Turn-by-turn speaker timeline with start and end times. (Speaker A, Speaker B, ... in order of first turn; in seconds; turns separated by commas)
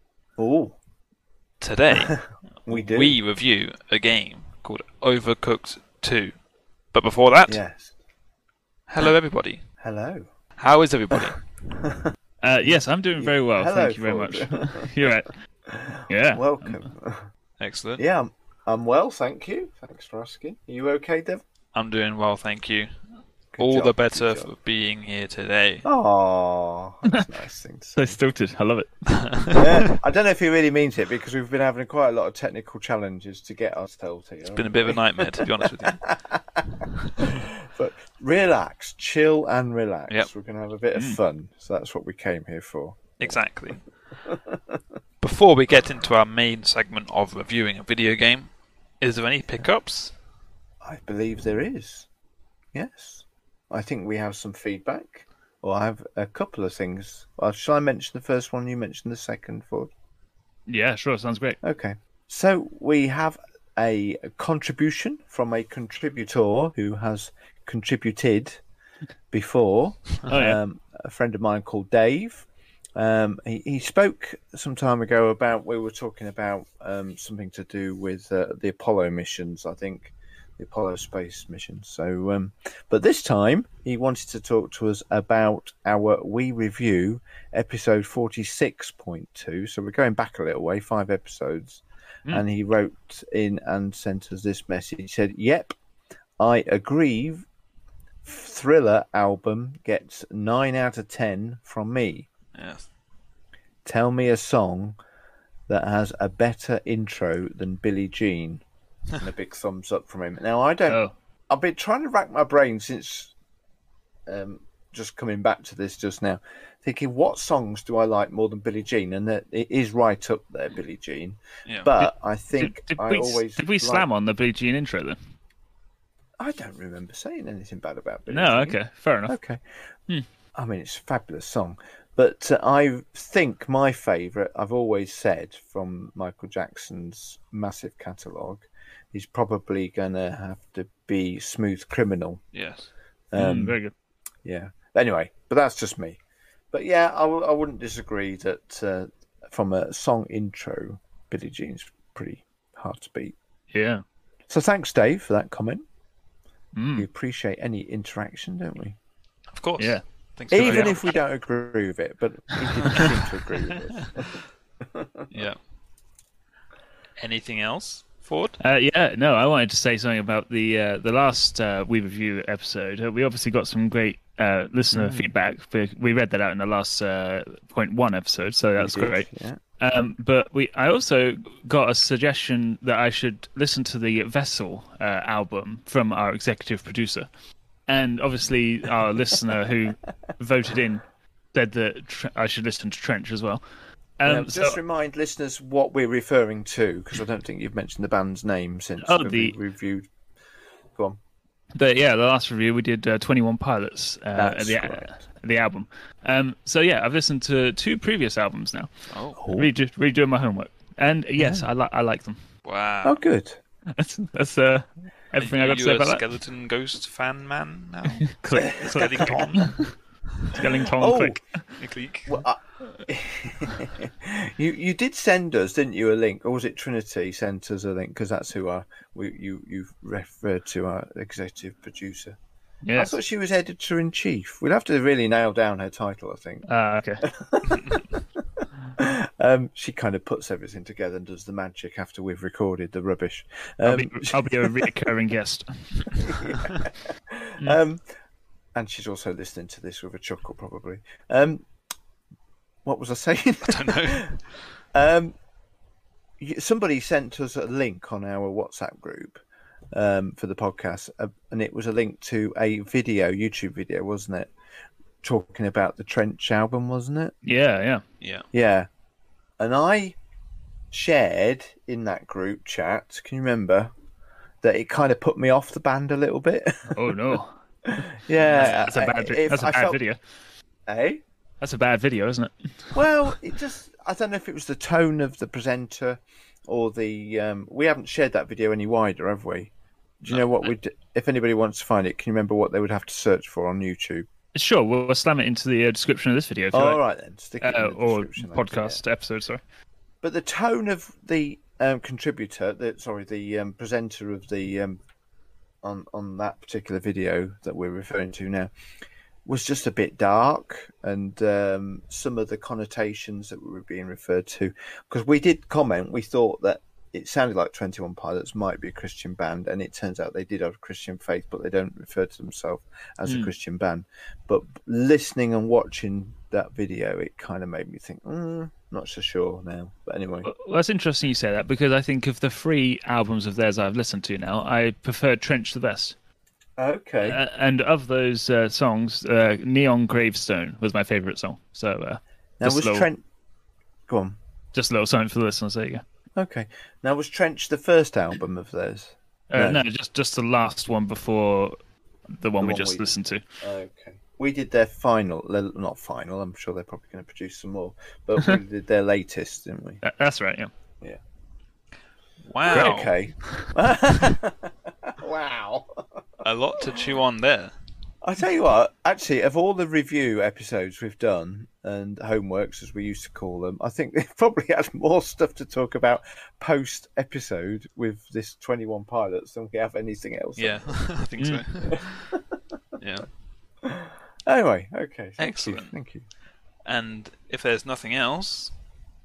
Speaker A: 0.4-0.8, Speaker B: 1.6-6.3, Speaker A: 1.9-3.2, Speaker B: 6.9-7.6, Speaker A: 7.5-7.9, Speaker B: 8.9-9.6, Speaker A: 9.8-10.3, Speaker B: 10.6-11.5, Speaker A: 11.8-12.1, Speaker C: 12.4-15.3, Speaker A: 12.7-14.9, Speaker A: 15.7-17.3, Speaker C: 16.1-16.9, Speaker B: 17.6-18.0, Speaker A: 18.0-21.4, Speaker B: 21.7-22.9, Speaker A: 23.5-24.5, Speaker B: 23.6-25.9, Speaker A: 25.8-28.1, Speaker C: 27.9-28.9, Speaker B: 29.1-29.9, Speaker A: 29.5-43.4, Speaker B: 34.5-36.1, Speaker B: 43.2-43.8, Speaker A: 44.2-44.8, Speaker B: 45.2-48.5, Speaker B: 49.0-50.1, Speaker A: 50.8-52.1, Speaker A: 52.7-59.9, Speaker C: 60.7-61.6, Speaker A: 61.6-68.6, Speaker A: 69.3-95.8, Speaker C: 70.3-70.6, Speaker A: 96.4-97.5, Speaker A: 98.2-102.3, Speaker B: 102.5-102.8, Speaker A: 103.8-105.0, Speaker A: 105.7-108.6, Speaker A: 109.2-113.3, Speaker C: 110.9-111.1, Speaker A: 114.3-124.0, Speaker B: 121.7-121.9, Speaker C: 122.0-125.2, Speaker A: 126.4-128.8, Speaker C: 128.3-129.3, Speaker A: 129.3-129.6, Speaker A: 130.5-142.4, Speaker B: 142.5-142.9, Speaker A: 143.3-143.8, Speaker C: 143.3-143.9, Speaker A: 144.4-146.2, Speaker A: 146.7-153.3, Speaker C: 153.7-154.0, Speaker A: 154.5-155.8, Speaker C: 156.7-157.1, Speaker A: 156.9-159.0, Speaker B: 159.5-161.1, Speaker A: 160.5-165.3, Speaker C: 160.5-161.0, Speaker B: 162.8-163.1, Speaker B: 163.7-164.1, Speaker B: 165.3-165.6, Speaker B: 167.2-168.6, Speaker C: 168.6-187.3, Speaker A: 174.9-175.3, Speaker A: 178.8-179.6, Speaker C: 187.9-193.6, Speaker C: 194.2-194.8, Speaker A: 194.2-200.1, Speaker C: 199.0-199.5, Speaker C: 201.8-208.9, Speaker A: 204.3-205.2, Speaker B: 209.1-209.5, Speaker A: 209.4-209.7, Speaker C: 209.5-212.4, Speaker A: 211.4-211.7, Speaker B: 212.6-213.2, Speaker A: 213.0-213.6, Speaker C: 213.9-216.2, Speaker B: 215.4-219.8, Speaker C: 218.2-219.9, Speaker A: 218.5-219.7, Speaker C: 220.5-221.8, Speaker A: 220.9-221.4, Speaker B: 221.8-222.4, Speaker A: 222.2-232.4, Speaker C: 232.8-233.2, Speaker A: 232.9-236.7, Speaker C: 236.7-237.3, Speaker A: 237.2-244.9, Speaker C: 243.8-246.2, Speaker A: 246.2-248.0, Speaker A: 248.7-251.7, Speaker A: 252.8-254.4, Speaker B: 253.6-254.4, Speaker A: 254.9-255.3, Speaker A: 256.4-259.4, Speaker A: 259.9-264.5, Speaker A: 265.2-267.3, Speaker C: 267.4-268.0, Speaker B: 268.2-268.4, Speaker A: 268.5-268.9, Speaker A: 269.6-270.2, Speaker A: 270.9-273.9, Speaker A: 274.6-280.0, Speaker C: 276.9-277.5, Speaker C: 278.4-280.2, Speaker A: 280.9-281.2, Speaker C: 281.6-282.5, Speaker A: 282.9-294.2, Speaker C: 294.5-297.0, Speaker A: 296.7-299.0, Speaker C: 297.6-299.6, Speaker A: 300.2-305.0, Speaker A: 305.8-308.7, Speaker A: 309.4-330.5, Speaker C: 323.2-323.5, Speaker C: 330.4-336.1, Speaker A: 336.8-337.4, Speaker C: 337.2-343.1, Speaker A: 342.6-343.2, Speaker A: 344.1-344.4, Speaker C: 344.7-346.0, Speaker A: 346.4-349.8, Speaker C: 349.5-351.8, Speaker C: 352.3-353.4, Speaker A: 352.6-360.0, Speaker C: 360.0-360.7, Speaker B: 362.5-363.2, Speaker A: 362.6-366.2, Speaker B: 366.4-367.7, Speaker A: 368.2-381.0, Speaker B: 380.6-382.3, Speaker C: 381.4-381.6, Speaker A: 381.8-382.6, Speaker B: 383.0-383.3, Speaker A: 383.8-386.2, Speaker B: 385.4-385.9, Speaker B: 386.8-388.7